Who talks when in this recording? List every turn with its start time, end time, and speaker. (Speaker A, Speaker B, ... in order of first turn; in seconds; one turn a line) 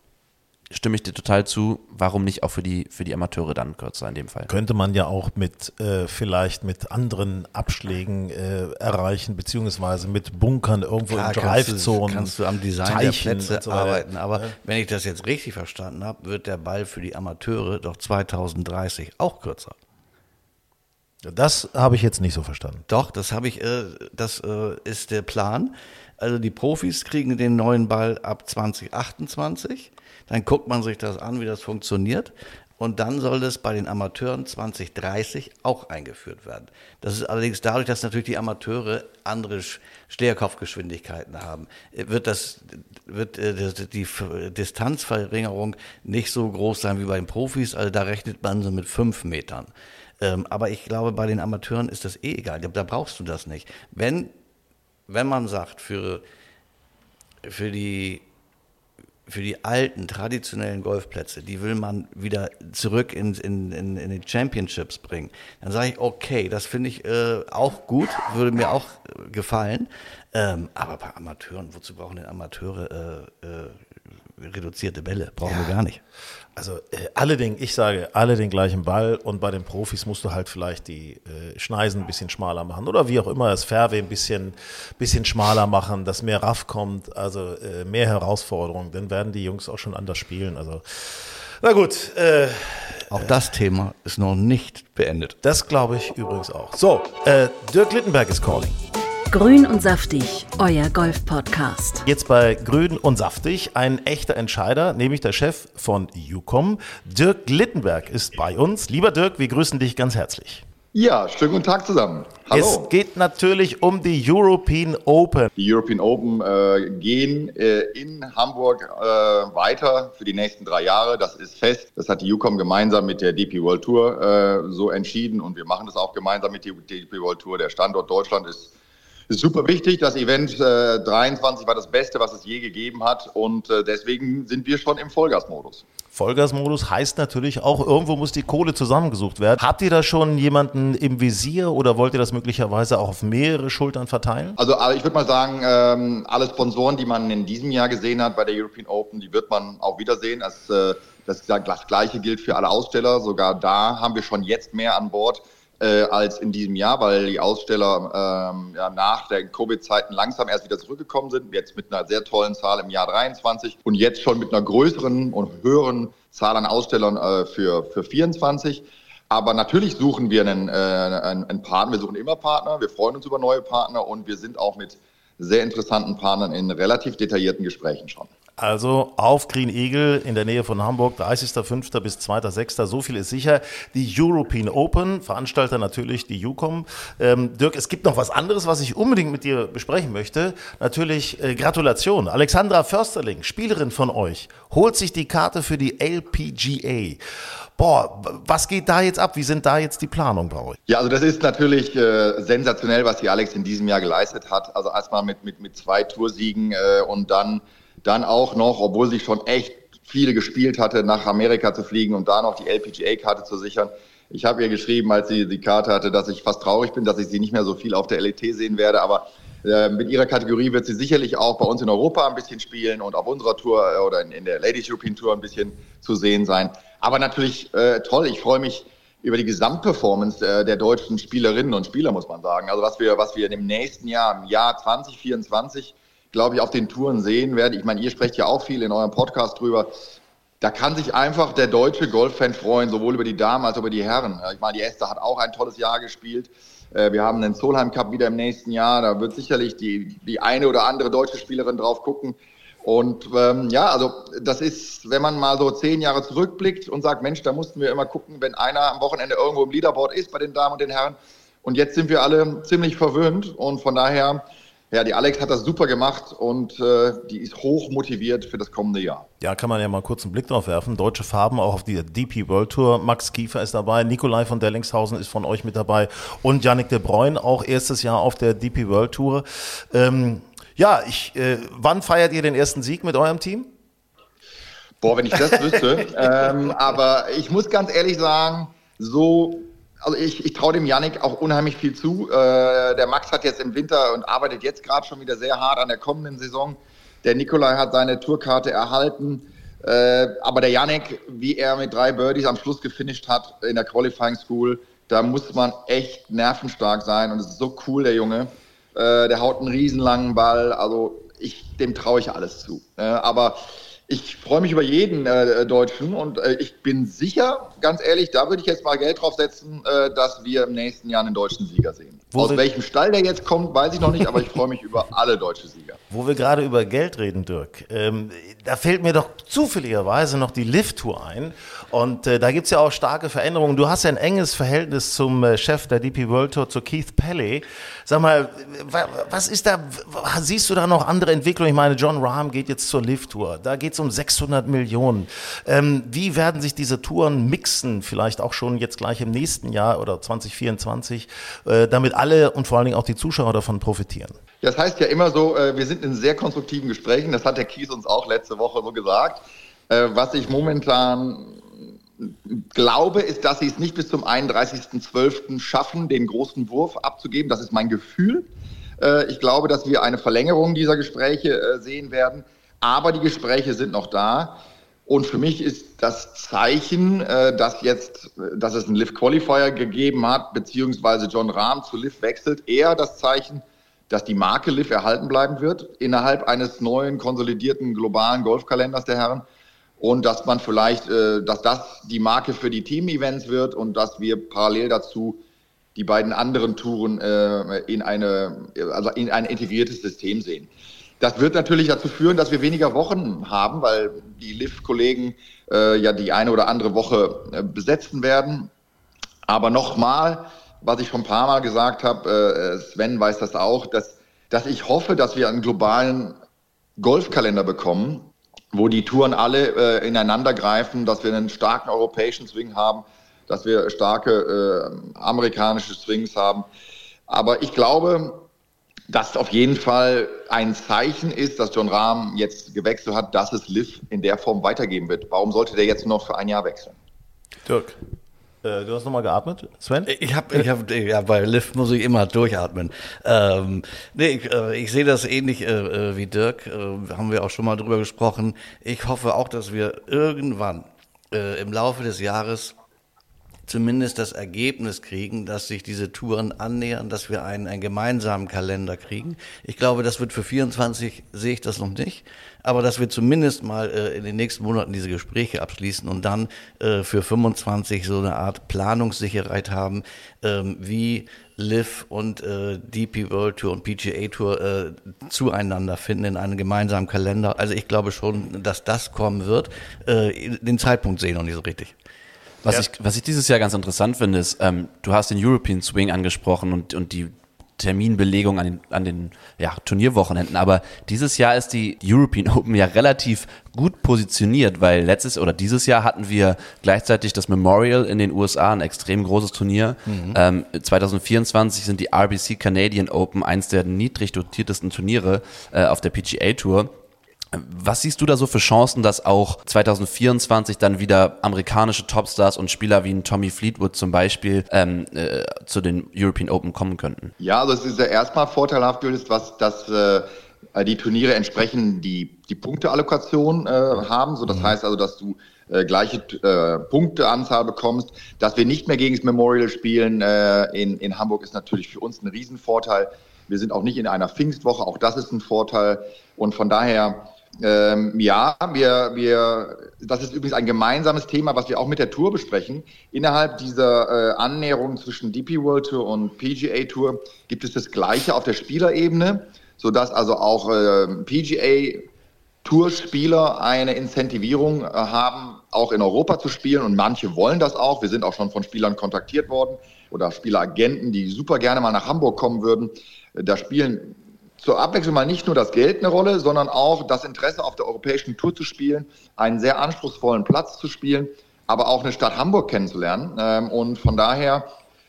Speaker A: 0.7-4.5
Speaker B: 4.5-14.5
Speaker C: 11.1-19.7
Speaker B: 21.2-22.8
Speaker C: 22.9-49.7
Speaker C: 50.2-54.3
Speaker C: 55.1-56.2
Speaker C: 57.4-58.2
Speaker C: 59.3-73.8
Speaker C: 74.4-76.0
Speaker B: 75.4-75.7
Speaker B: 76.5-93.4
Speaker C: 93.1-95.3
Speaker B: 95.4-98.8
Speaker D: 99.3-102.0
Speaker B: 102.0-110.6
Speaker E: 110.9-112.9
Speaker B: 112.5-115.5
Speaker E: 115.6-128.7
Speaker E: 129.3-135.8
Speaker B: 136.1-144.6
Speaker E: 144.6-178.3
Speaker B: 178.6-197.2
Speaker B: 197.8-200.8
Speaker E: 200.9-239.9
Speaker E: 240.6-269.2
Speaker B: 269.4-283.7
Speaker E: 285.0-326.0
Speaker B: 322.3-322.6
Speaker B: 326.1-354.4
Speaker E: 354.6-361.6
Speaker E: 362.2-368.5
Speaker E: 369.0-389.4
Speaker E: 390.0-395.4
Speaker E: 395.9-408.7
Speaker E: 409.5-416.4
Speaker E: 417.0-426.7
Speaker E: 427.3-428.4
Speaker E: 429.1-436.9
Speaker B: 437.6-438.0
Speaker B: 438.6-440.1
Speaker C: 440.1-452.7
Speaker C: 453.7-481.9
Speaker A: 482.6-506.9
Speaker C: 500.1-500.4
Speaker A: 507.5-517.3
Speaker E: 517.4-552.1
Speaker E: 552.6-574.7